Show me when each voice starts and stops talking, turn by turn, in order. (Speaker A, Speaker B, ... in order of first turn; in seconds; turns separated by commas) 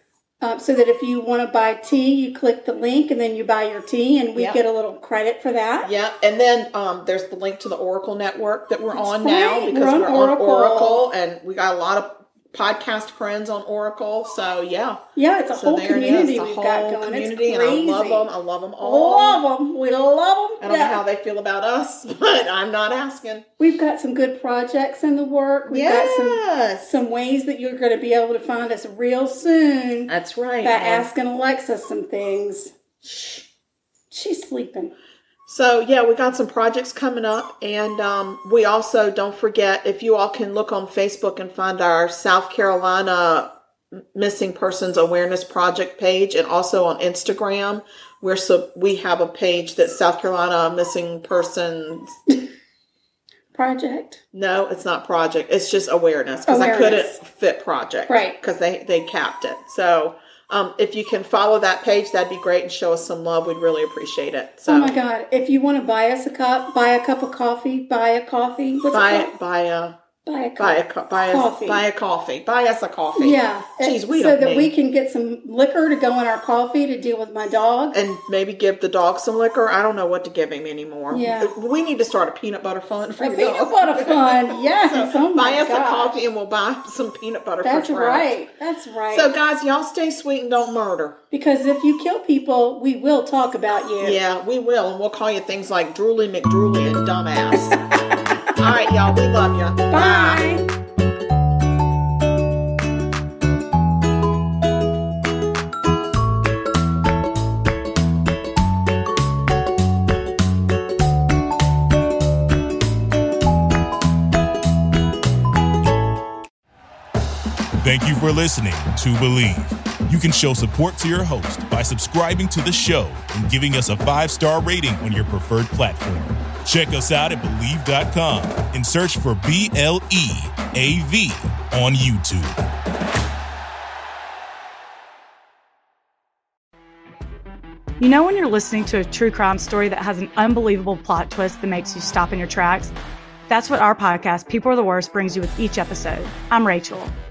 Speaker A: 0.4-5.9, Speaker B: 4.3-4.6, Speaker B: 5.8-15.0, Speaker A: 8.9-11.1, Speaker A: 15.2-21.0, Speaker B: 15.5-19.4, Speaker B: 20.6-23.5, Speaker A: 23.6-32.7, Speaker B: 25.7-26.9, Speaker B: 30.1-31.1, Speaker B: 33.0-33.5, Speaker A: 34.1-35.0, Speaker B: 35.5-52.2, Speaker A: 53.5-54.2, Speaker B: 54.3-65.0, Speaker A: 56.5-57.2, Speaker A: 58.1-58.4, Speaker A: 64.7-69.3, Speaker B: 68.9-70.0, Speaker A: 70.2-71.8, Speaker B: 70.6-74.7, Speaker A: 73.2-78.0, Speaker B: 77.9-88.4, Speaker A: 81.1-81.5, Speaker A: 83.2-86.2, Speaker A: 87.6-89.3, Speaker B: 89.1-91.2, Speaker A: 91.3-94.2, Speaker B: 94.0-97.8, Speaker A: 97.6-98.2, Speaker B: 98.5-100.5, Speaker A: 99.9-100.7, Speaker C: 117.8-132.7, Speaker D: 138.0-142.9, Speaker D: 143.5-147.1